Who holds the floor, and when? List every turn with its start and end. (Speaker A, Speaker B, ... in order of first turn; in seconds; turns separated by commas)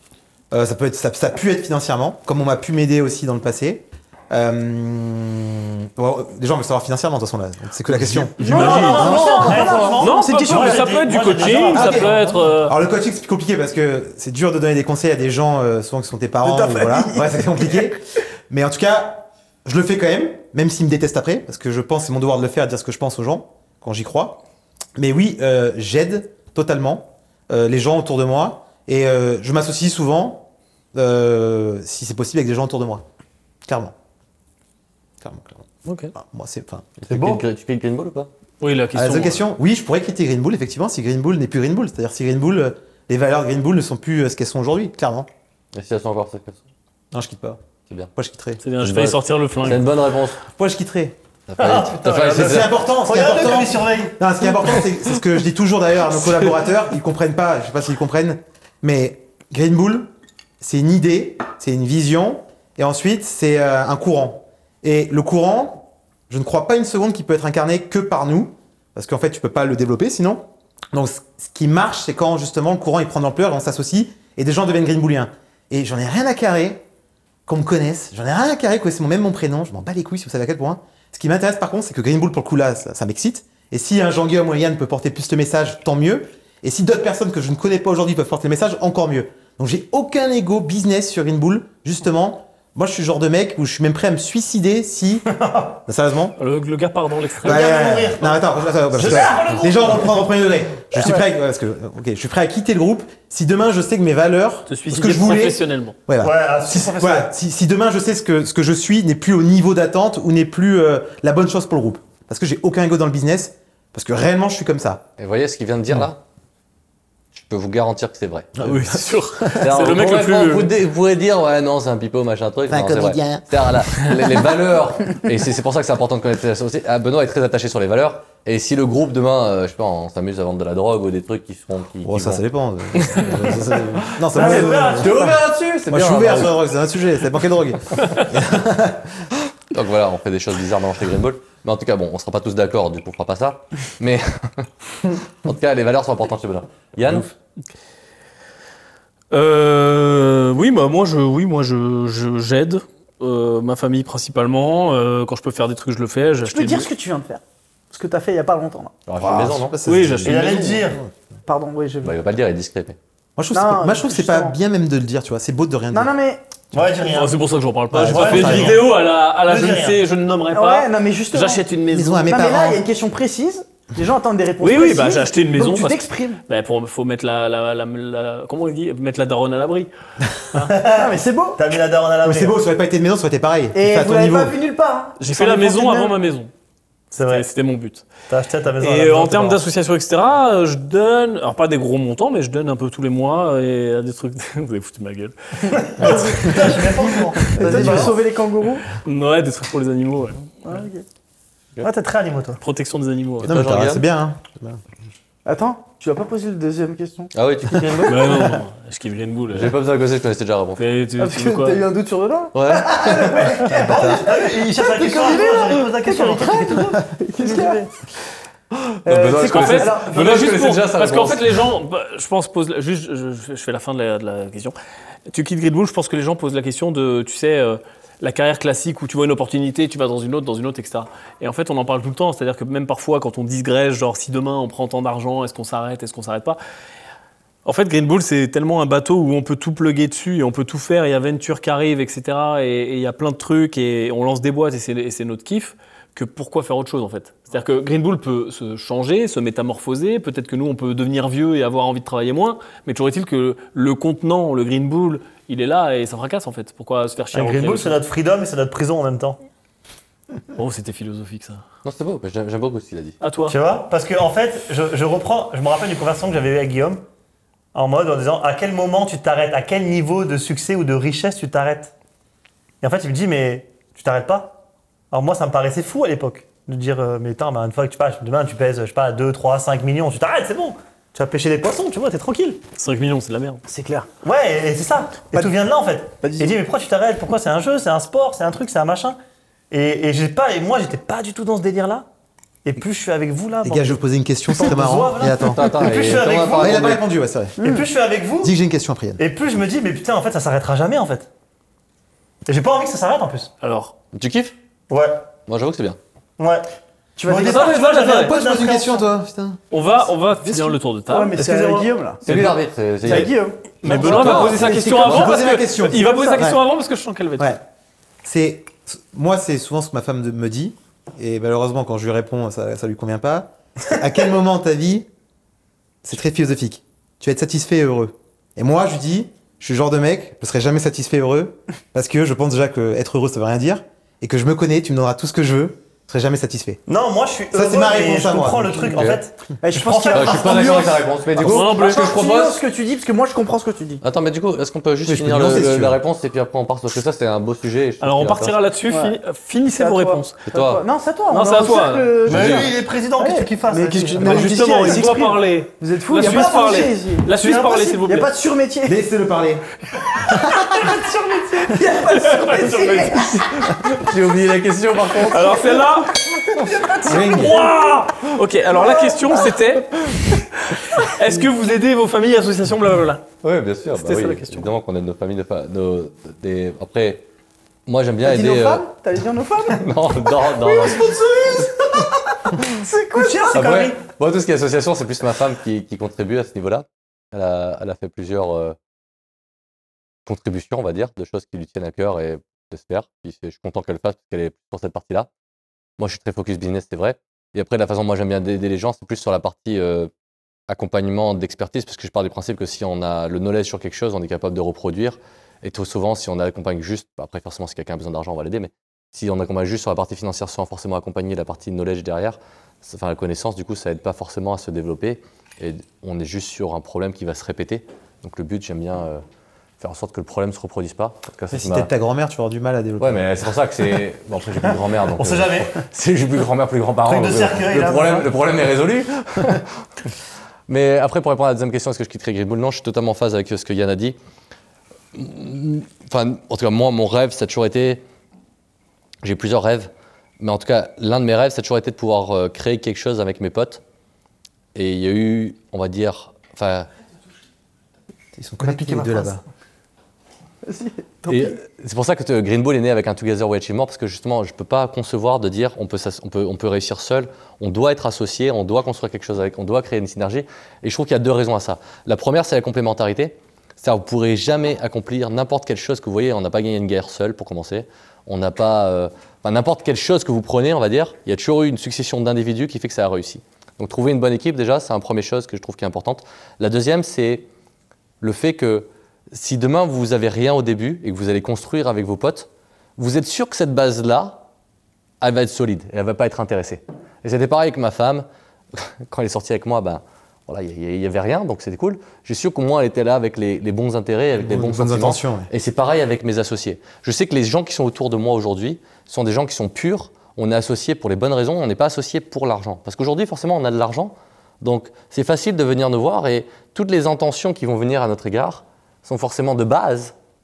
Speaker A: 0.5-9.8, Speaker B: 8.4-10.9, Speaker C: 8.4-12.8, Speaker D: 8.4-12.2, Speaker A: 11.7-18.0, Speaker B: 16.4-17.9, Speaker A: 18.5-24.4, Speaker A: 24.9-33.0, Speaker A: 33.6-33.9, Speaker A: 35.2-37.0, Speaker C: 35.8-36.1, Speaker E: 37.0-38.3, Speaker D: 37.1-37.4, Speaker C: 38.6-39.5, Speaker A: 38.9-45.3, Speaker E: 45.7-46.6, Speaker A: 47.1-47.6, Speaker A: 48.1-48.6, Speaker C: 48.6-49.9, Speaker E: 48.8-50.4, Speaker A: 50.5-51.2, Speaker E: 51.5-52.8, Speaker D: 51.6-54.2, Speaker A: 52.2-60.1, Speaker A: 60.6-76.8, Speaker A: 77.5-96.3, Speaker D: 95.3-95.7, Speaker C: 96.4-97.7, Speaker D: 97.4-100.3, Speaker A: 97.4-115.0, Speaker B: 100.9-101.2, Speaker C: 104.7-106.0, Speaker D: 106.2-107.3, Speaker E: 115.2-116.2, Speaker E: 117.3-118.7, Speaker A: 118.6-119.0, Speaker C: 118.6-120.7, Speaker E: 119.5-132.4, Speaker A: 122.7-123.5, Speaker A: 132.0-135.3, Speaker E: 133.1-133.5, Speaker E: 134.3-136.6, Speaker D: 134.3-135.3, Speaker A: 135.9-139.1, Speaker E: 139.7-144.7, Speaker E: 145.4-147.3, Speaker C: 149.3-156.9, Speaker B: 156.4-159.0, Speaker E: 159.1-159.9, Speaker A: 159.2-160.4, Speaker C: 159.8-160.9, Speaker D: 160.2-161.0, Speaker B: 161.4-162.1, Speaker E: 162.0-163.0, Speaker A: 163.3-166.1, Speaker B: 163.5-164.6, Speaker B: 165.9-166.4, Speaker D: 166.7-167.4, Speaker C: 167.1-172.3, Speaker A: 167.9-168.8, Speaker D: 167.9-168.9, Speaker D: 169.4-170.0, Speaker B: 170.5-171.6, Speaker A: 171.9-172.8, Speaker B: 172.2-176.4, Speaker C: 174.6-179.9, Speaker D: 180.5-182.6, Speaker B: 180.9-181.6, Speaker A: 182.2-184.6, Speaker B: 183.7-186.2, Speaker C: 185.2-186.5, Speaker D: 187.1-187.4, Speaker C: 187.2-188.1, Speaker D: 188.3-189.6, Speaker C: 188.8-196.7, Speaker D: 195.8-198.2, Speaker B: 197.5-198.9, Speaker A: 197.6-198.1, Speaker C: 198.9-200.6, Speaker B: 200.7-201.0, Speaker D: 201.8-202.6, Speaker C: 202.6-203.5, Speaker E: 203.4-204.1, Speaker A: 203.4-204.8, Speaker B: 205.4-207.3, Speaker E: 207.3-208.5, Speaker C: 208.1-209.7, Speaker E: 209.5-210.8, Speaker C: 210.8-211.8, Speaker B: 211.2-217.8, Speaker E: 212.5-213.6, Speaker A: 213.3-214.2, Speaker D: 213.6-216.8, Speaker A: 216.8-217.0, Speaker D: 217.4-217.8, Speaker B: 219.0-220.2, Speaker E: 219.0-221.6, Speaker C: 219.4-224.7, Speaker C: 225.3-236.6, Speaker C: 237.6-258.0, Speaker D: 257.3-259.4, Speaker C: 260.6-261.6, Speaker E: 261.8-263.2, Speaker C: 263.2-263.6, Speaker D: 263.5-267.0, Speaker D: 267.7-271.9, Speaker D: 272.8-274.6, Speaker D: 275.1-282.6, Speaker C: 282.8-283.6, Speaker B: 283.7-284.1, Speaker D: 284.2-289.2, Speaker B: 286.2-286.5, Speaker D: 289.7-292.1, Speaker D: 292.6-294.0, Speaker A: 293.6-295.6, Speaker D: 294.5-297.0, Speaker E: 295.4-297.0, Speaker A: 296.6-297.6, Speaker B: 297.6-297.9, Speaker D: 297.6-298.5, Speaker A: 298.4-299.2, Speaker D: 299.2-301.3, Speaker D: 302.4-303.5, Speaker C: 303.6-303.9, Speaker E: 304.1-304.5, Speaker D: 304.9-305.3, Speaker E: 305.5-306.0, Speaker D: 306.4-306.7, Speaker B: 307.2-307.7, Speaker D: 307.2-309.0, Speaker A: 307.3-309.6, Speaker C: 307.4-308.4, Speaker C: 309.7-311.6, Speaker B: 310.5-312.5, Speaker D: 311.4-311.9, Speaker E: 312.2-315.4, Speaker C: 312.2-317.6, Speaker B: 313.0-316.4, Speaker A: 315.0-316.6, Speaker A: 318.2-325.1, Speaker A: 326.0-336.8, Speaker D: 336.9-340.7, Speaker A: 337.5-339.2, Speaker B: 339.6-344.0, Speaker E: 340.1-342.6, Speaker C: 341.4-342.1, Speaker E: 344.0-348.6, Speaker A: 345.1-346.0, Speaker C: 348.0-350.4, Speaker B: 348.9-349.1, Speaker B: 349.8-359.0, Speaker E: 350.5-350.8, Speaker C: 351.3-352.2, Speaker D: 352.2-354.7, Speaker E: 352.3-352.7, Speaker C: 354.0-358.3, Speaker D: 357.3-357.9, Speaker A: 358.9-359.6, Speaker A: 360.2-360.9, Speaker B: 360.8-363.7, Speaker D: 360.8-361.4, Speaker C: 362.0-363.8, Speaker E: 363.7-365.8, Speaker C: 365.2-366.2, Speaker B: 366.5-367.6, Speaker A: 367.0-367.7, Speaker C: 367.1-370.0, Speaker B: 368.7-370.1, Speaker C: 370.7-373.2, Speaker E: 373.4-377.2, Speaker C: 373.9-374.7, Speaker E: 377.9-378.8, Speaker B: 378.2-380.0, Speaker E: 379.7-381.2, Speaker B: 380.6-383.6, Speaker D: 380.7-381.7, Speaker D: 383.1-384.0, Speaker E: 383.5-388.8, Speaker E: 390.2-395.3, Speaker E: 396.0-400.1, Speaker E: 400.7-419.2, Speaker E: 419.8-421.9, Speaker A: 421.5-423.3, Speaker E: 423.0-429.8, Speaker D: 425.1-425.8, Speaker D: 427.0-428.3, Speaker E: 430.7-434.1, Speaker E: 435.1-438.0, Speaker E: 439.2-443.8, Speaker E: 444.7-446.9, Speaker A: 448.4-449.4, Speaker D: 448.6-449.4, Speaker B: 450.6-451.6, Speaker E: 451.3-477.5, Speaker E: 478.2-484.4, Speaker E: 485.2-510.1, Speaker A: 494.4-495.5